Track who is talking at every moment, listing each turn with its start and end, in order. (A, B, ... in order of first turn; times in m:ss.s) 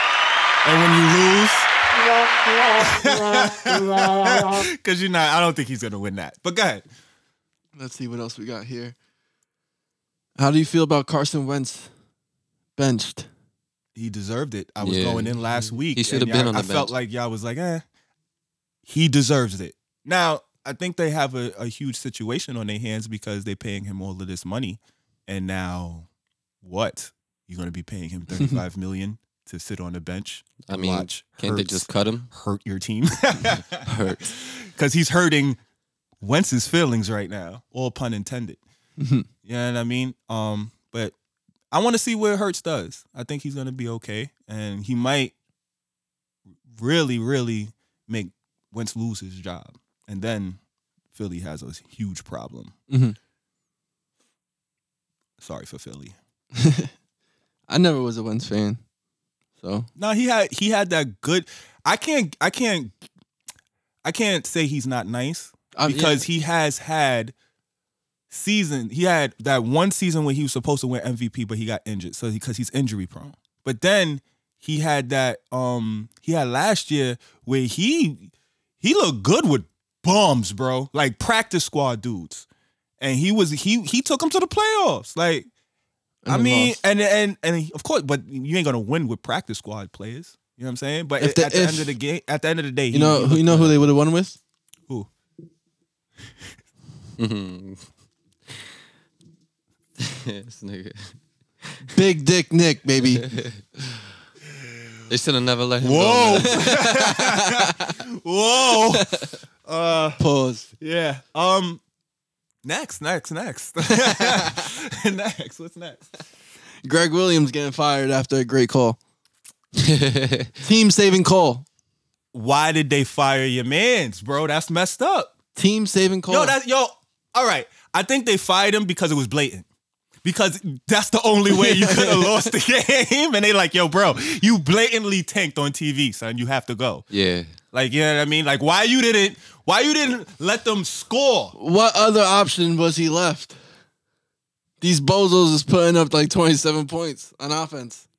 0:00.6-0:01.7 A
0:02.7-0:06.8 A
0:07.8-0:09.0 B
0:10.4-0:11.9 B
0:12.8-0:13.3 B
0:13.9-0:17.8 A
0:14.8-0:16.9 C
0:18.8-0:26.1 A
0:26.6-0:35.6 A
0:30.6-0:32.3 C
0:33.8-0:34.3 C
0:36.2-0:38.6 A
0:39.0-0:39.3 B
0:39.4-0:41.1 A
0:41.7-0:45.3 A
0:46.7-0:50.6 A
0:51.1-0:52.7 A
0:52.9-0:53.2 B
0:55.4-0:56.2 A
0:56.6-0:56.9 B
0:57.7-0:58.8 B
0:59.6-0:59.9 B
1:00.0-1:02.9 A
1:04.0-1:07.3 A
1:05.7-1:06.2 B
1:08.3-1:18.3 A
1:18.8-1:22.4 A
1:23.0-1:25.5 A
1:26.2-1:26.8 B
1:26.3-1:33.8 A
1:31.2-1:32.0 B
1:32.9-1:34.4 B
1:37.2-1:37.8 C
1:40.0-1:41.1 C
1:41.9-1:43.3 B
1:43.2-1:44.0 C
1:45.1-1:46.7 C
1:45.8-1:49.1 A
1:46.6-1:48.0 B
1:48.9-1:49.3 B
1:49.6-1:50.2 A
1:50.2-1:50.7 B
1:50.8-1:51.8 A
1:52.6-1:56.0 A
1:53.9-1:54.6 B
1:56.8-1:59.0 B
1:59.7-2:00.5 C
2:00.6-2:01.6 B
2:02.3-2:05.3 A
2:05.5-2:06.6 B
2:06.3-2:09.6 A
2:10.2-2:17.0 A
2:11.5-2:12.3 B
2:17.1-2:17.5 C
2:17.7-2:21.5 A
2:21.6-2:23.6 B
2:24.8-2:28.1 B